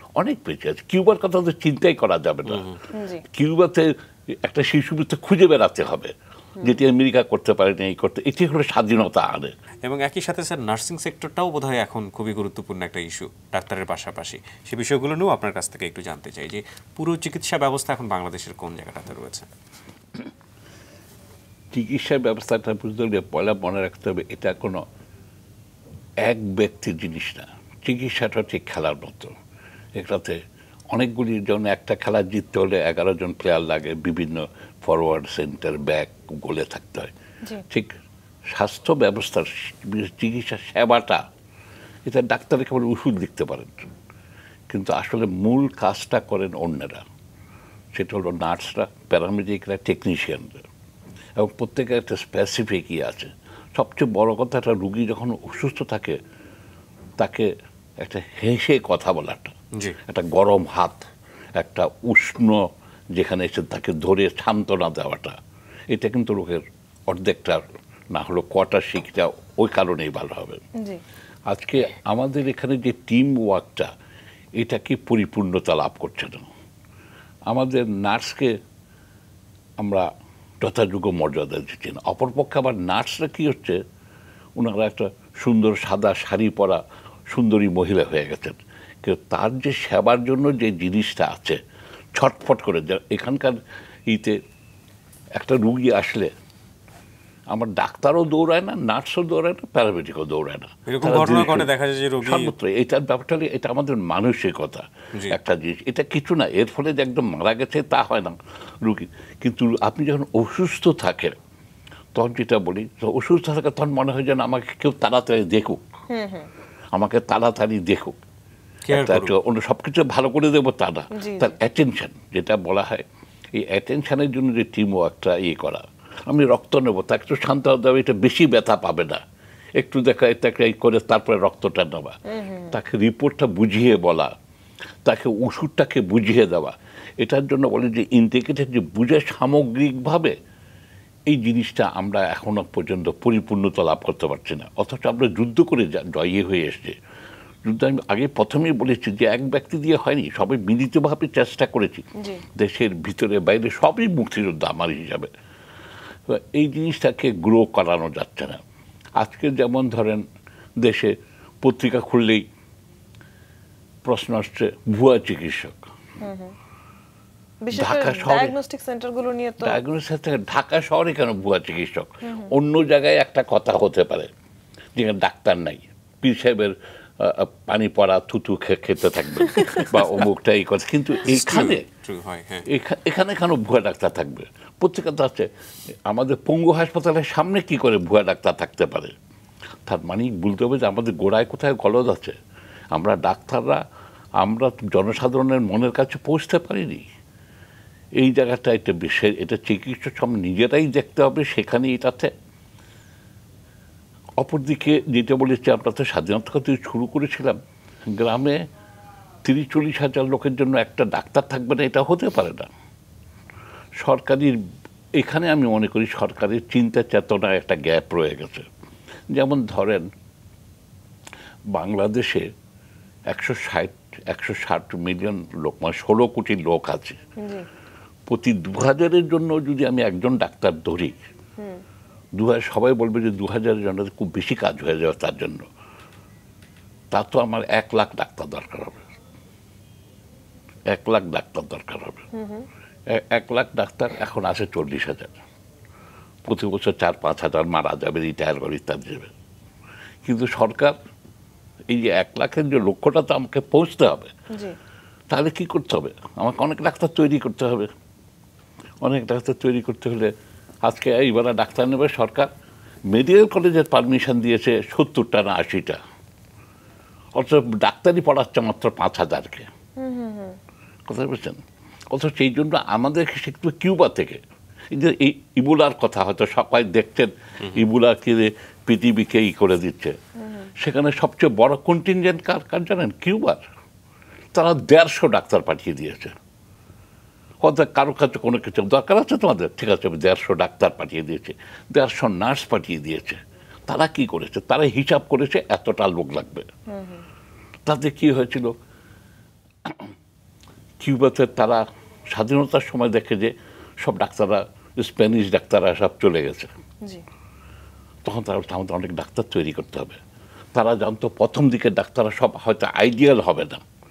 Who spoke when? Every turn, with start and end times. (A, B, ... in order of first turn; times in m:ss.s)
0:00.2-0:02.7 A
0:02.5-0:02.8 B
0:02.9-0:03.2 C
0:03.3-0:09.5 A
0:09.8-0:19.5 B
0:21.7-0:24.8 A
0:26.2-0:29.3 A
0:30.0-0:30.4 A
0:30.9-0:37.1 A
0:38.5-0:41.2 A
0:42.1-0:43.9 A
0:44.7-0:47.0 A
0:48.0-0:50.6 A
0:51.4-0:56.2 A
0:57.2-1:05.4 A
1:05.9-1:10.6 A
1:11.5-1:13.9 A
1:14.6-1:16.5 A
1:17.5-1:18.6 A
1:19.8-1:20.1 A
1:20.6-1:23.8 A
1:24.6-1:31.6 A
1:32.2-1:33.6 A
1:34.1-1:34.4 A
1:35.4-1:36.3 A
1:37.5-1:41.7 A
1:40.9-1:42.5 B
1:42.2-1:51.4 A
1:52.2-1:55.8 A
1:56.1-1:56.5 C
1:56.9-1:58.2 A
1:58.9-1:59.3 B
1:58.9-2:09.2 A
2:01.2-2:01.5 C
2:09.8-2:12.2 A
2:12.3-2:12.8 C
2:12.7-2:14.3 A
2:15.0-2:20.4 A
2:21.3-2:27.0 A
2:27.6-2:35.3 A
2:32.2-2:32.4 C
2:36.3-2:38.6 A
2:39.2-2:40.2 A
2:40.8-2:42.5 A
2:44.0-2:45.8 A
2:46.2-2:46.6 C
2:47.7-2:49.8 C
2:47.7-2:48.6 A
2:49.6-2:54.3 A
2:52.2-2:52.5 C
2:55.0-3:01.8 A
2:59.6-2:59.8 C
2:59.9-3:00.2 B
3:01.3-3:02.7 B
3:02.7-3:05.5 A
3:06.1-3:09.1 A
3:09.9-3:12.4 A
3:12.9-3:13.8 A
3:14.4-3:17.0 A
3:18.2-3:22.3 A
3:24.4-3:27.6 A
3:28.1-3:28.6 A
3:29.4-3:32.7 A
3:34.0-3:34.6 A
3:35.2-3:38.7 A
3:39.3-3:40.1 A
3:41.7-3:42.5 A
3:43.3-3:47.2 A
3:47.4-3:47.7 C
3:48.3-3:51.2 A
3:52.4-3:55.7 A
3:57.1-3:59.0 A
4:00.9-4:02.3 A
4:02.3-4:02.7 C
4:03.1-4:05.4 A
4:06.4-4:09.3 A
4:10.2-4:11.0 A
4:11.9-4:14.3 A
4:15.3-4:17.9 A
4:19.0-4:20.3 A
4:20.8-4:22.5 A
4:23.1-4:26.0 A
4:27.4-4:29.7 A
4:30.0-4:30.6 C
4:31.1-4:40.2 A
4:40.4-4:40.7 C
4:40.8-4:43.6 A
4:44.5-4:46.3 A
4:47.6-4:56.7 A
4:56.9-4:57.2 C
4:57.9-4:58.7 A
4:59.8-5:00.1 A
5:01.0-5:06.7 A
5:08.2-5:10.2 A
5:10.8-5:13.8 A